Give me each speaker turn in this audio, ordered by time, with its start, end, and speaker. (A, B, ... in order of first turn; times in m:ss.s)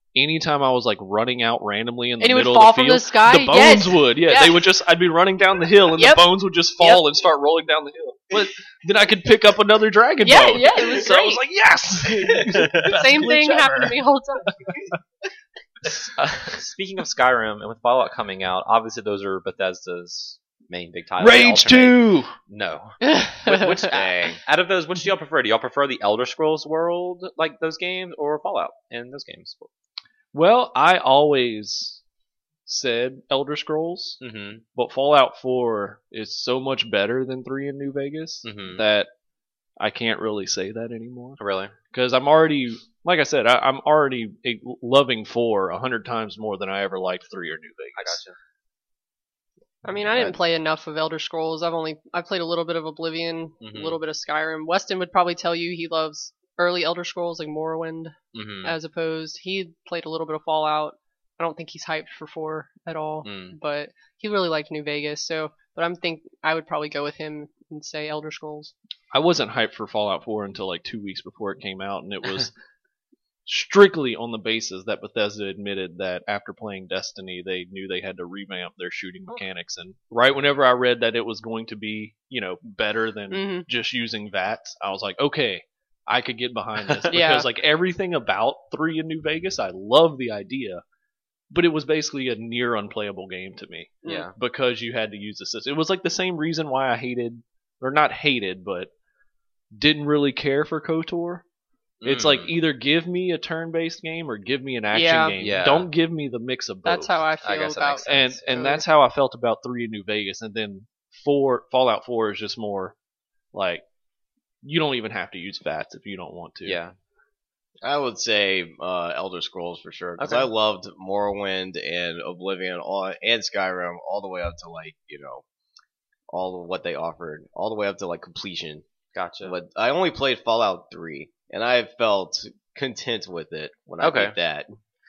0:00.1-0:14.0 A
0:02.2-0:04.7 B
0:06.0-0:06.2 B
0:10.2-0:11.4 B
0:12.5-0:14.7 B
0:15.9-0:29.7 C
0:21.2-0:22.3 A
0:23.0-0:23.9 B
0:23.9-0:24.4 D
0:30.3-0:32.0 A
0:32.7-0:34.2 A
0:34.2-0:34.6 C
0:34.8-0:39.1 A
0:38.4-0:38.8 C
0:39.8-0:41.4 A
0:41.4-0:41.7 C
0:41.9-0:48.2 A
0:48.0-0:48.4 C
0:49.8-1:08.7 B
0:50.1-0:50.4 A
0:53.6-0:54.0 C
0:58.3-0:58.8 C
1:03.2-1:03.6 C
1:09.1-1:12.5 A
1:13.5-1:30.8 A
1:23.3-1:23.7 B
1:26.9-1:27.1 C
1:27.1-1:27.5 B
1:31.5-1:38.9 A
1:34.0-1:34.3 B
1:34.0-1:34.3 C
1:39.7-1:41.4 A
1:42.0-1:42.5 C
1:42.0-1:47.2 A
1:44.9-1:45.4 B
1:45.4-1:45.9 C
1:46.9-1:48.8 B
1:47.4-1:48.4 C
1:48.1-1:53.0 A
1:53.5-1:53.8 A
1:54.6-1:56.8 A
1:56.6-1:57.0 C
1:57.8-2:05.4 D
2:00.2-2:00.5 C
2:06.3-2:08.8 D
2:09.1-2:09.5 C
2:09.4-2:14.7 D
2:14.0-2:14.4 C